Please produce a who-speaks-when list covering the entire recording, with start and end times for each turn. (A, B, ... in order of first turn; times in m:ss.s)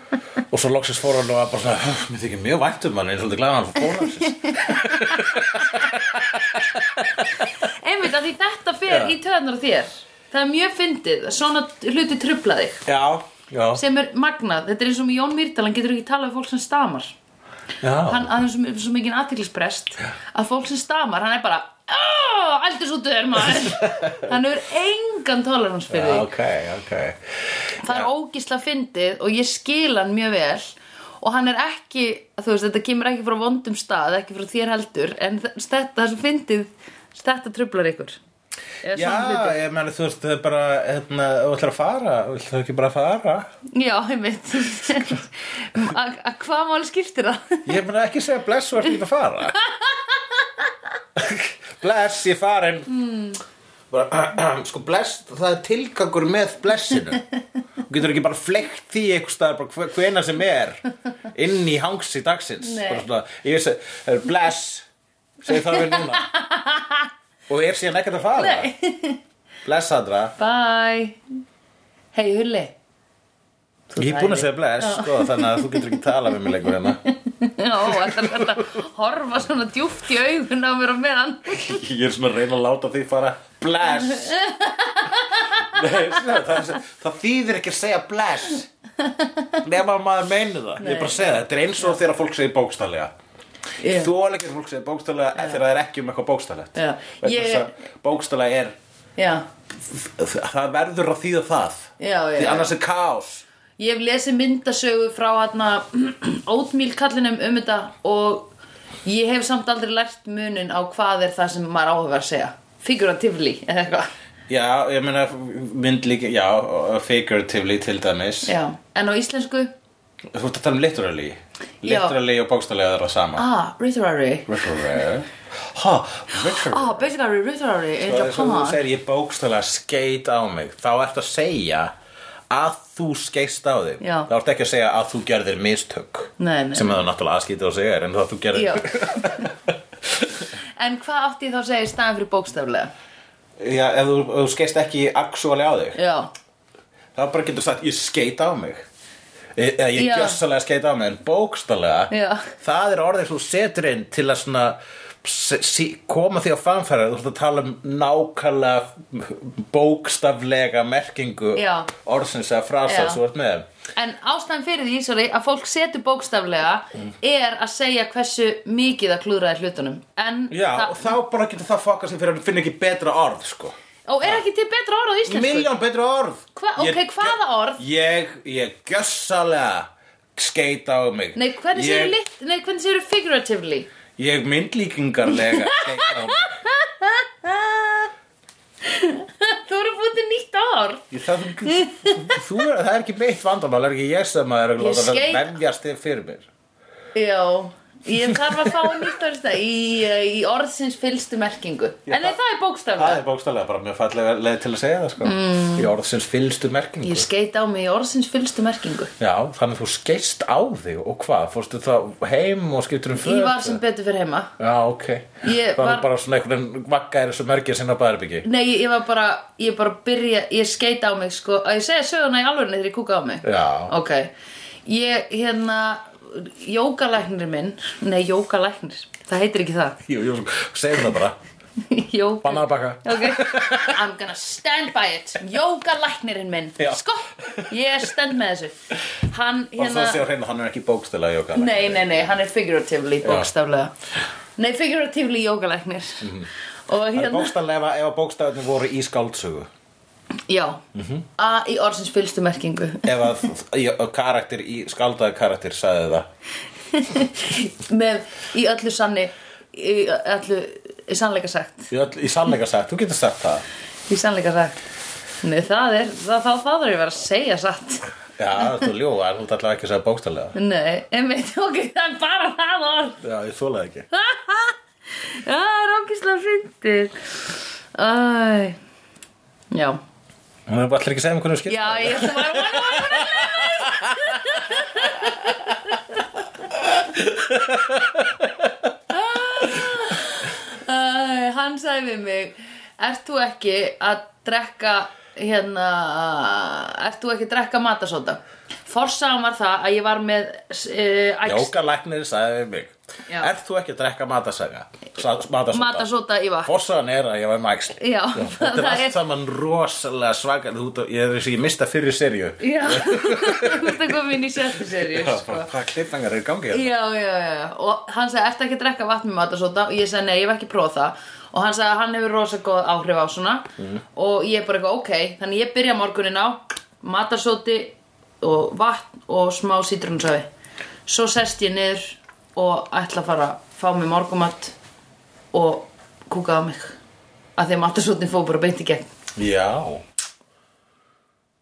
0:00.5-0:07.5 A
0:04.2-0:05.8 B
0:07.2-0:12.8 B
0:08.9-0:09.1 A
0:12.8-0:13.8 A
0:13.7-0:17.2 B
0:17.8-0:18.3 A
0:18.0-0:26.3 B
0:23.4-0:24.3 A
0:25.9-0:28.1 A
0:27.8-0:38.2 B
0:38.8-0:39.6 B
0:38.9-0:43.5 A
0:43.7-0:47.7 B
0:47.6-0:49.6 A
0:49.6-0:50.6 B
0:51.2-0:52.9 A
0:52.9-0:53.4 B
0:53.9-0:57.2 A
0:57.9-1:04.8 A
1:02.6-1:03.0 B
1:05.4-1:06.3 A
1:05.5-1:07.1 B
1:07.5-1:08.7 A
1:08.4-1:09.2 B
1:09.6-1:10.3 A
1:10.4-1:11.2 B
1:12.1-1:12.7 B
1:13.9-1:16.0 B
1:14.0-1:17.0 A
1:17.0-1:21.8 B
1:17.8-1:18.6 A
1:21.5-1:24.4 A
1:24.0-1:25.8 B
1:25.6-1:28.7 A
1:29.0-1:29.6 B
1:29.6-1:33.1 A
1:30.8-1:31.3 B
1:33.8-1:34.1 B
1:33.8-1:38.7 A
1:36.8-1:37.7 B
1:39.2-1:39.4 B
1:39.8-1:43.4 A
1:42.0-1:42.7 B
1:43.8-1:48.5 B
1:49.0-1:54.1 B
1:54.5-1:58.5 A
1:58.4-1:59.7 B
2:00.3-2:03.4 A
2:01.8-2:02.1 B
2:03.4-2:04.5 B
2:04.5-2:07.1 A
2:06.5-2:08.8 B
2:08.0-2:11.9 A
2:12.5-2:20.3 A
2:14.0-2:14.3 B
2:16.4-2:17.0 B
2:18.5-2:19.4 B
2:20.8-2:22.9 B
2:23.6-2:26.0 A
2:25.9-2:26.3 B
2:27.1-2:28.8 A
2:29.5-2:43.7 A
2:30.0-2:30.4 B
2:32.1-2:32.5 B
2:41.5-2:41.9 B
2:42.8-2:43.2 B
2:44.0-2:51.0 B
2:50.5-2:54.4 A
2:54.1-2:55.7 B
2:55.2-3:02.2 A
2:56.6-2:57.8 B
3:01.3-3:03.9 B
3:04.2-3:06.5 A
3:05.3-3:08.1 B
3:08.8-3:11.1 B
3:11.1-3:16.5 A
3:11.6-3:12.4 B
3:14.8-3:15.5 B
3:17.1-3:23.2 B
3:18.2-3:19.1 A
3:22.1-3:22.4 A
3:23.0-3:27.3 A
3:25.2-3:25.9 B
3:27.0-3:29.1 B
3:29.2-3:33.8 A
3:33.2-3:34.5 B
3:34.6-3:38.4 A
3:35.4-3:36.1 B
3:38.4-3:44.3 B
3:43.4-3:43.9 A
3:44.8-3:50.0 B
3:50.0-3:51.4 A
3:51.8-4:00.2 B
3:52.4-3:54.0 A
3:56.8-3:57.7 A
3:59.8-4:02.2 A
4:01.5-4:03.9 B
4:03.2-4:03.5 A
4:04.6-4:07.5 B
4:06.2-4:06.5 A
4:07.1-4:09.7 A
4:10.5-4:10.8 B
4:10.9-4:11.2 A
4:11.4-4:13.3 B
4:13.0-4:16.3 A
4:16.9-4:21.9 B
4:21.9-4:23.6 A
4:24.1-4:24.8 B
4:25.4-4:28.1 B
4:28.4-4:30.5 A
4:30.5-4:33.2 B
4:33.2-4:34.1 A
4:34.1-4:38.8 B
4:39.7-4:40.0 B
4:40.7-4:44.7 A
4:41.7-4:46.2 B
4:46.8-4:48.7 A
4:49.1-5:01.7 B
5:01.4-5:06.1 A
5:05.7-5:06.7 B
5:06.6-5:16.9 A
5:08.0-5:09.2 B
5:12.6-5:15.7 B
5:16.7-5:30.5 B
5:31.1-5:34.7 B
5:35.5-5:37.0 B
5:37.6-5:39.1 B
5:39.4-5:40.0 A